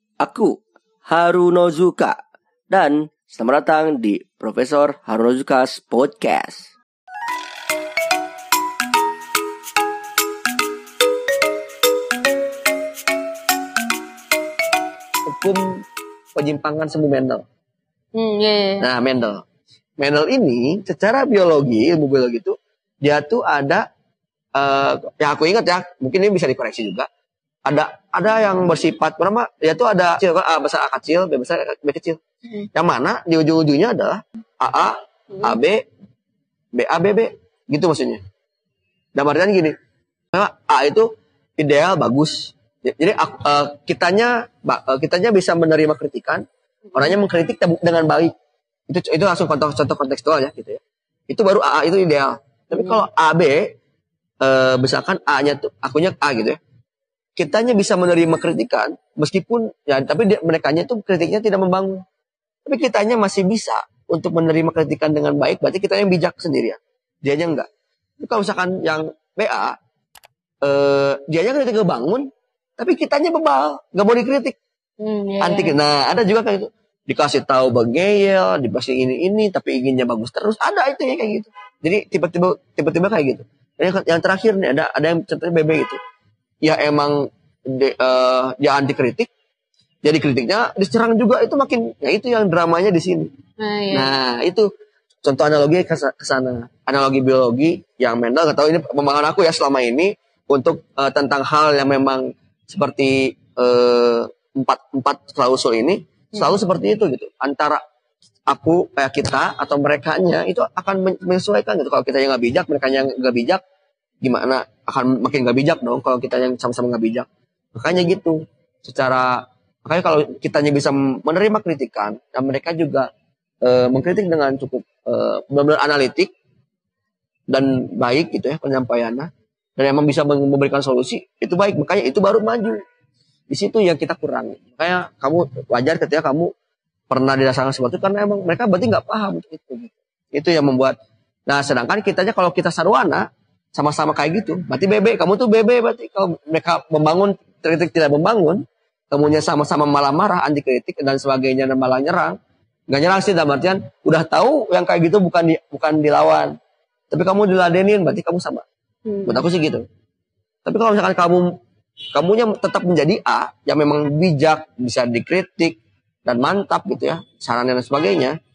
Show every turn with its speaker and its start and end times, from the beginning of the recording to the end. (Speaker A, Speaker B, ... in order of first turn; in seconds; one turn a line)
Speaker A: 0.2-2.2
Speaker A: 2.7-6.7
Speaker B: 15.3-15.6
Speaker B: 16.4-17.4
Speaker C: 18.1-18.9
Speaker B: 18.8-19.4
Speaker B: 20.0-23.8
Speaker B: 24.6-27.1
Speaker B: 27.6-32.2
Speaker B: 32.7-35.8
Speaker C: 35.3-35.6
Speaker B: 36.8-38.2
Speaker B: 39.1-39.8
Speaker B: 40.3-46.4
Speaker B: 47.0-48.3
Speaker B: 48.9-53.7
Speaker C: 52.8-53.0
Speaker B: 54.4-56.6
Speaker B: 57.4-62.0
Speaker B: 62.7-67.7
Speaker B: 68.2-69.8
Speaker B: 70.6-72.3
Speaker B: 72.8-74.6
Speaker C: 75.0-75.8
Speaker B: 75.4-86.0
Speaker B: 86.6-89.3
Speaker B: 90.0-93.3
Speaker C: 93.6-94.2
Speaker B: 93.9-94.7
Speaker B: 95.2-107.8
Speaker B: 108.5-113.6
Speaker B: 114.2-123.1
Speaker B: 123.6-126.3
Speaker B: 127.5-132.8
Speaker B: 133.5-136.5
Speaker B: 137.1-141.0
Speaker B: 141.5-152.4
Speaker B: 152.9-156.6
Speaker B: 157.1-158.7
Speaker C: 159.1-159.5
Speaker B: 159.2-159.8
Speaker B: 160.7-161.5
Speaker B: 162.2-168.4